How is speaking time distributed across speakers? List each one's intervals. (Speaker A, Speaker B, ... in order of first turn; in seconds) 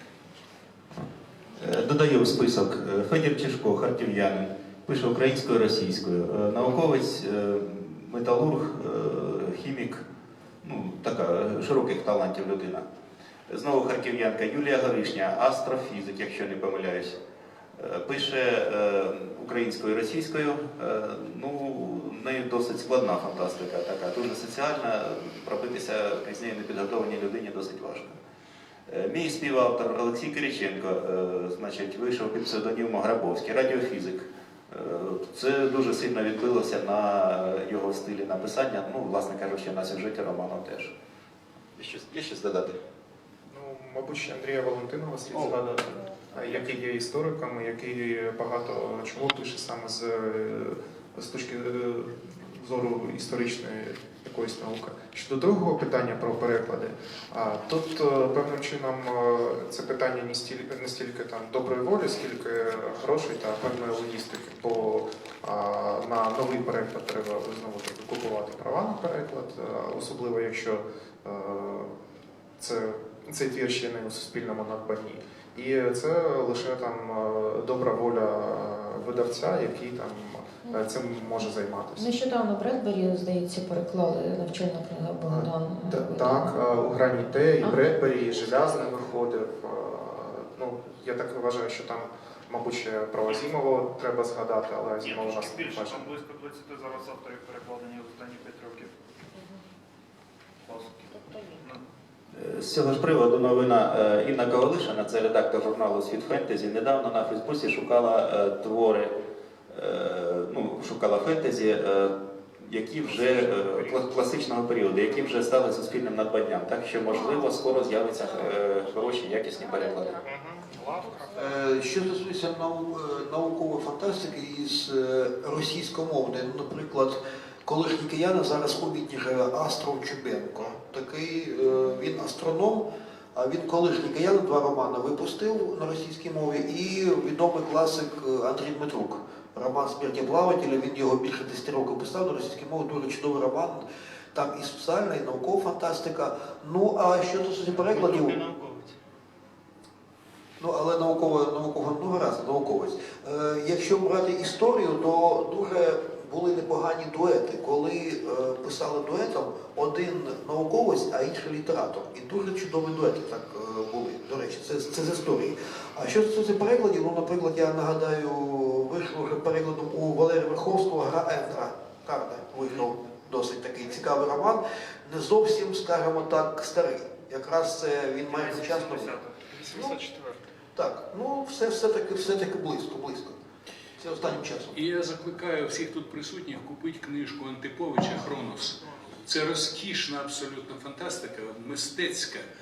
Speaker A: 1.6-10.0, 10.6-12.9, 13.5-17.2, 17.8-28.2, 28.9-41.0, 41.8-42.8, 45.3-45.6, 102.3-109.2, 109.7-120.2, 147.7-148.9
Speaker B: 43.5-72.0, 72.6-82.1, 85.3-96.1, 113.1-114.0, 120.2-121.3, 179.6-180.4
Speaker C: 81.4-86.6, 99.3-99.6, 101.1-101.6, 117.2-117.5, 119.6-120.2, 120.8-121.3
Speaker D: 95.0-98.9, 100.6-101.8, 178.2-179.9
Speaker E: 121.3-148.4, 150.6-180.0, 180.8-183.4, 184.0-184.8
Speaker F: 184.7-192.5